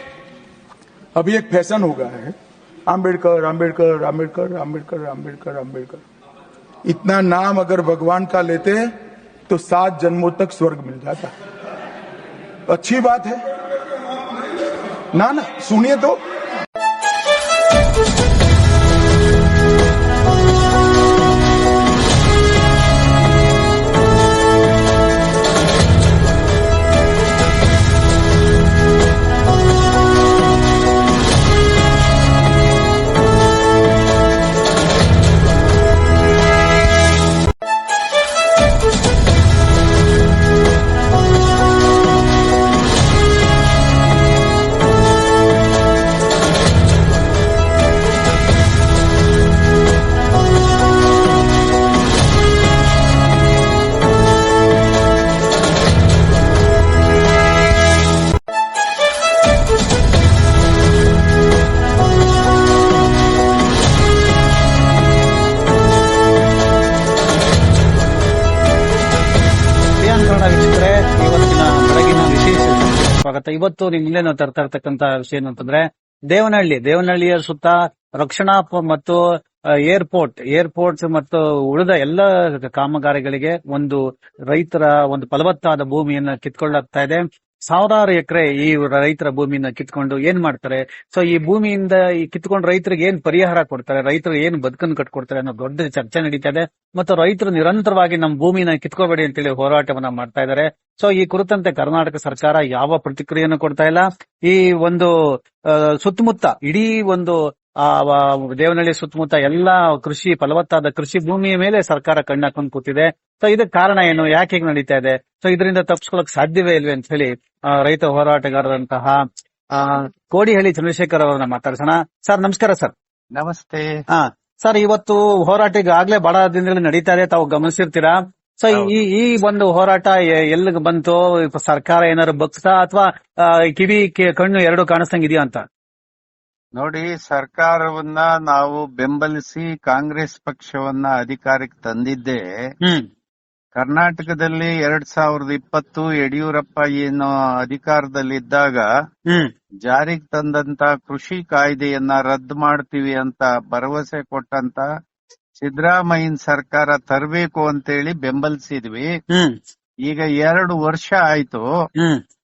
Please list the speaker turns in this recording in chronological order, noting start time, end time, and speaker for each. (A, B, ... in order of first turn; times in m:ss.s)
0:01.2-0:02.4 A
0:02.9-0:06.0 A
0:06.9-0:08.9 A
0:09.5-0:11.3 A
0:12.7-0:13.4 A
0:15.1-0:16.2 A
1:10.0-1:19.2 B
1:19.9-1:59.2 B
1:59.7-2:02.9 B
2:03.4-2:03.9 C
2:04.1-2:15.6 B
2:16.8-2:22.4 C
2:23.8-2:28.9 C
2:29.9-2:34.9 C
2:35.6-2:39.1 C
2:39.3-2:39.6 B
2:40.1-2:41.7 C
2:42.0-2:42.2 B